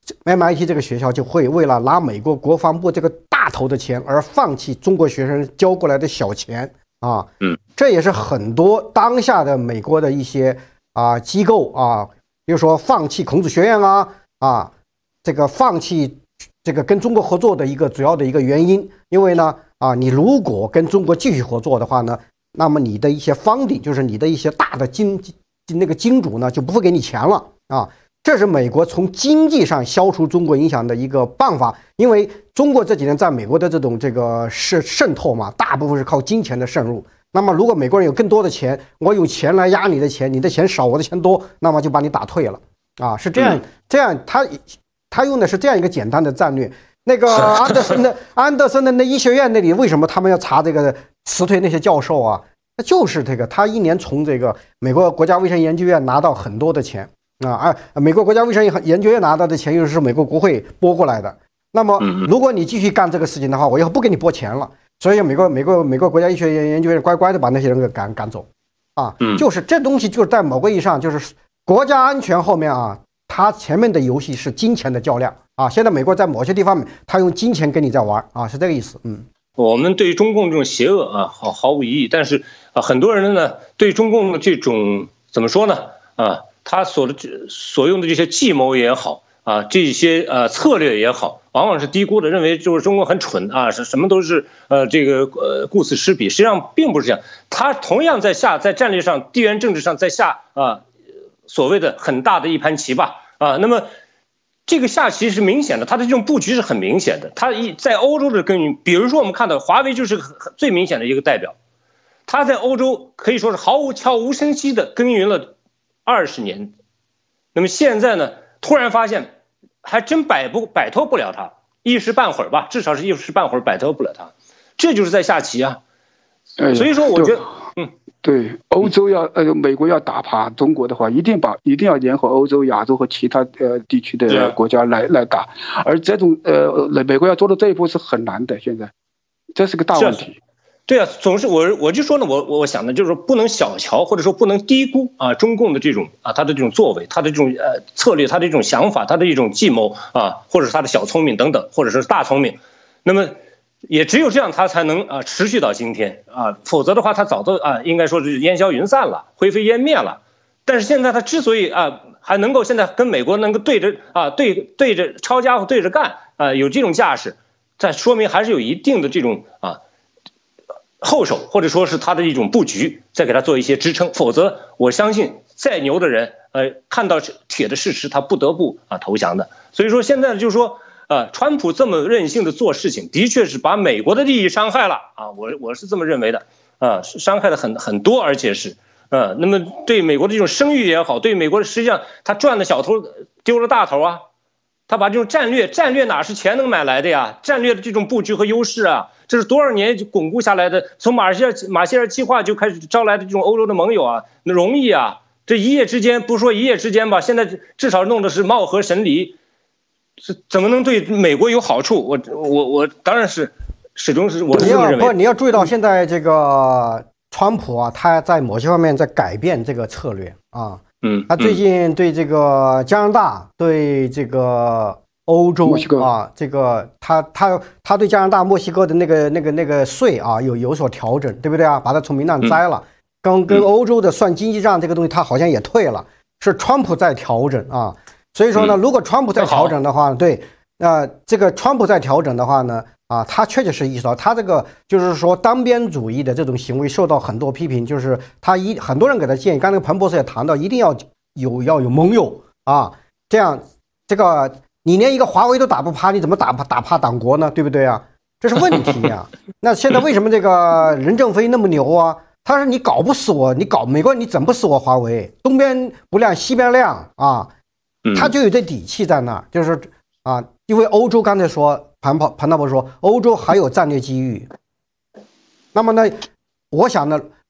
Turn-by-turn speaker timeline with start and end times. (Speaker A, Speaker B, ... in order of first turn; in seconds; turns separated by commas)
Speaker A: 0.2-14.7, Speaker A: 15.2-79.2, Speaker B: 62.0-62.3, Speaker B: 79.6-100.8, Speaker B: 101.5-103.9, Speaker B: 104.7-111.5, Speaker B: 112.3-115.5, Speaker B: 116.0-116.7, Speaker B: 117.5-125.8, Speaker C: 126.6-127.5, Speaker B: 126.7-127.9, Speaker C: 128.2-138.9, Speaker B: 134.3-134.6, Speaker C: 139.5-140.4, Speaker B: 139.9-140.2, Speaker B: 140.9-169.8, Speaker B: 171.0-194.2, Speaker B: 194.9-209.4, Speaker B: 210.2-215.2, Speaker A: 214.5-267.5, Speaker B: 221.0-221.6, Speaker C: 225.7-226.1, Speaker B: 239.4-239.7, Speaker B: 268.1-268.3, Speaker A: 268.1-274.5, Speaker A: 275.7-277.2